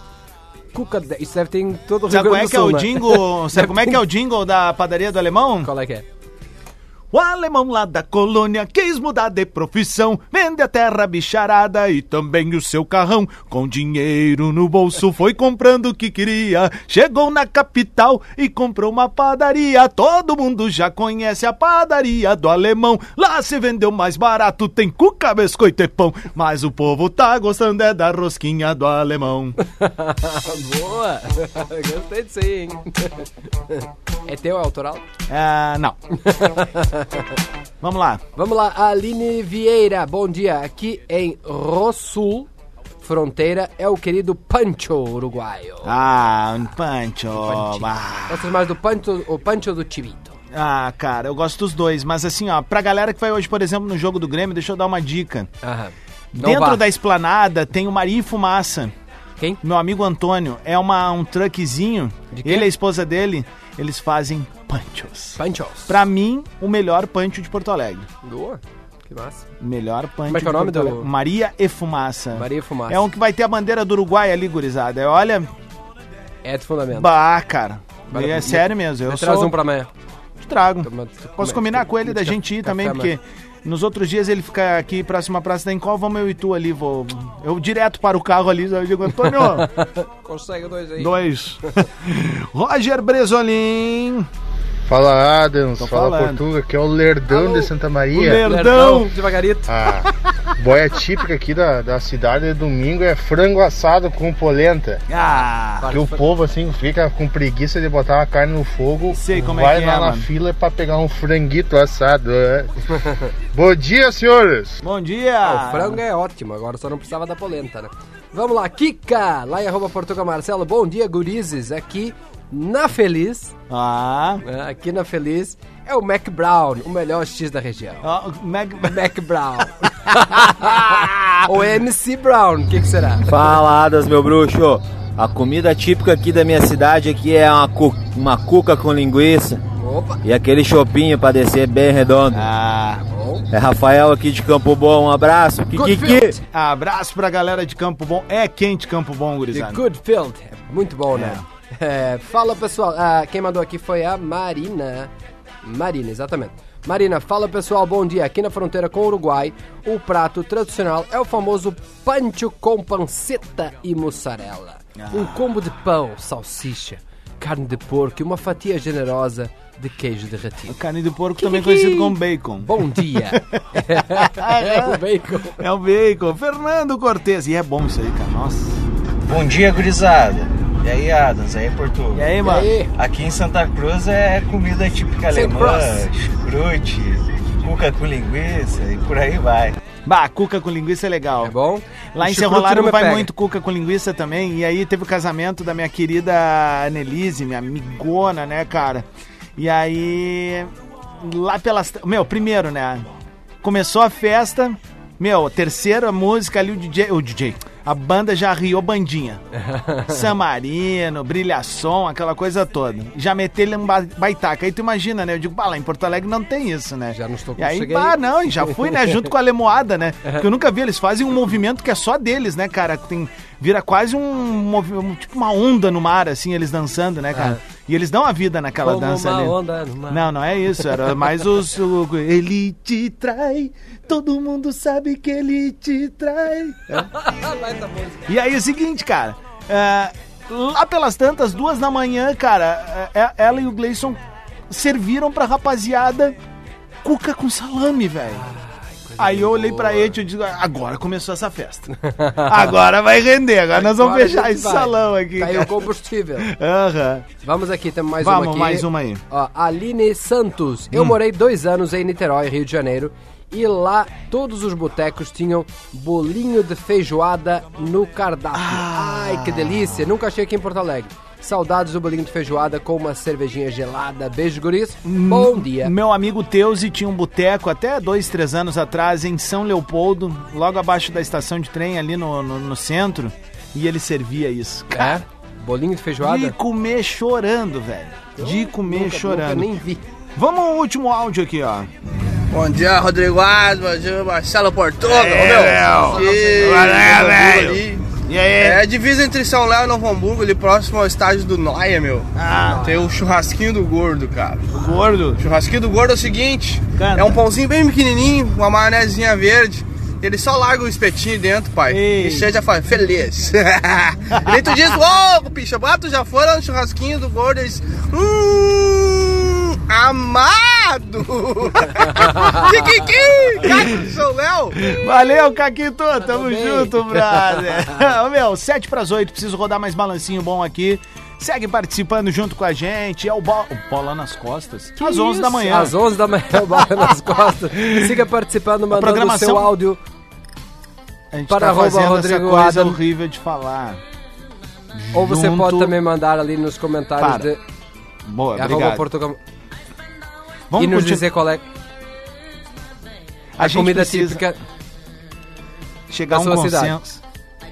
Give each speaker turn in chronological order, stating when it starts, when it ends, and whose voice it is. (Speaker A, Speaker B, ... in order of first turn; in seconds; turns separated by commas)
Speaker A: 0.7-4.0, Speaker B: 2.1-5.7, Speaker A: 5.6-6.0, Speaker B: 7.1-29.6, Speaker A: 29.6-35.0, Speaker B: 35.3-36.0, Speaker A: 36.2-37.2, Speaker B: 37.8-38.2, Speaker A: 38.4-42.5, Speaker A: 43.0-45.9, Speaker B: 45.8-48.5, Speaker A: 47.4-50.4, Speaker B: 50.5-55.5, Speaker A: 55.6-56.8, Speaker B: 56.3-58.9, Speaker B: 59.6-68.1, Speaker A: 62.3-62.7, Speaker A: 65.4-65.9, Speaker A: 68.2-69.4, Speaker B: 69.6-75.5, Speaker A: 70.3-71.1, Speaker A: 72.3-73.0, Speaker A: 76.4-77.1, Speaker B: 76.9-79.5, Speaker A: 78.1-79.9, Speaker B: 80.4-89.7, Speaker A: 80.8-83.1, Speaker A: 89.3-91.2, Speaker B: 91.0-94.3, Speaker C: 94.9-98.4, Speaker B: 95.8-96.4, Speaker A: 97.3-99.7, Speaker B: 98.1-99.2, Speaker C: 99.7-105.0, Speaker B: 105.1-105.9, Speaker A: 105.2-106.3, Speaker C: 105.9-112.7, Speaker B: 109.1-110.3, Speaker A: 112.9-113.2, Speaker C: 113.5-114.8, Speaker B: 114.8-116.0, Speaker A: 115.4-123.5, Speaker B: 123.7-124.4, Speaker A: 124.4-128.1, Speaker B: 128.0-129.0, Speaker A: 128.8-133.4, Speaker B: 130.2-131.5, Speaker D: 133.2-139.6, Speaker A: 139.8-140.2, Speaker D: 140.2-142.4, Speaker B: 142.3-143.0, Speaker A: 143.1-143.4, Speaker D: 143.5-146.4, Speaker A: 145.7-146.4, Speaker B: 146.5-149.8, Speaker A: 149.5-155.1, Speaker B: 151.1-151.4, Speaker A: 155.6-170.8, Speaker B: 165.0-165.4, Speaker B: 170.7-175.0, Speaker A: 171.4-175.6, Speaker B: 175.6-178.8, Speaker B: 182.1-182.7, Speaker A: 182.4-182.9, Speaker E: 183.1-186.8, Speaker A: 185.3-186.1, Speaker E: 187.7-189.0, Speaker B: 190.0-191.5, Speaker A: 191.4-193.3, Speaker B: 192.1-203.1, Speaker B: 203.6-209.4, Speaker A: 209.5-210.3, Speaker B: 210.1-229.6, Speaker A: 217.1-219.2, Speaker A: 227.3-227.6, Speaker A: 228.8-230.3, Speaker B: 230.1-237.1, Speaker A: 236.9-238.2, Speaker B: 238.3-246.3, Speaker B: 247.0-248.5, Speaker A: 248.3-250.2, Speaker B: 249.2-251.9, Speaker A: 251.9-252.7, Speaker B: 252.4-255.8, Speaker A: 253.7-256.5, Speaker B: 256.4-257.3, Speaker A: 257.4-275.9, Speaker B: 258.2-259.2, Speaker B: 260.9-261.2, Speaker B: 268.5-270.0, Speaker B: 275.0-285.2, Speaker A: 284.9-286.6, Speaker B: 286.2-289.7, Speaker A: 288.4-290.0, Speaker B: 290.4-291.9, Speaker F: 292.5-298.0, Speaker B: 295.0-298.8, Speaker A: 295.7-297.0, Speaker F: 298.6-302.3, Speaker B: 302.3-302.9, Speaker A: 302.6-303.1, Speaker F: 302.8-304.8, Speaker B: 304.7-305.4, Speaker F: 305.4-324.8, Speaker B: 306.9-307.4, Speaker B: 311.9-312.5, Speaker A: 322.1-322.6, Speaker B: 324.8-335.9, Speaker A: 326.2-328.0, Speaker A: 335.0-340.0, Speaker B: 337.7-338.1, Speaker B: 338.9-339.7, Speaker B: 341.3-344.0, Speaker A: 341.5-343.0, Speaker B: 344.9-346.0, Speaker A: 345.1-347.6, Speaker B: 347.2-347.5, Speaker B: 348.2-349.1, Speaker A: 348.5-349.4, Speaker B: 350.7-351.3, Speaker A: 350.8-351.6, Speaker B: 353.6-354.4, Speaker A: 353.6-354.6, Speaker B: 356.1-357.2, Speaker A: 356.3-356.9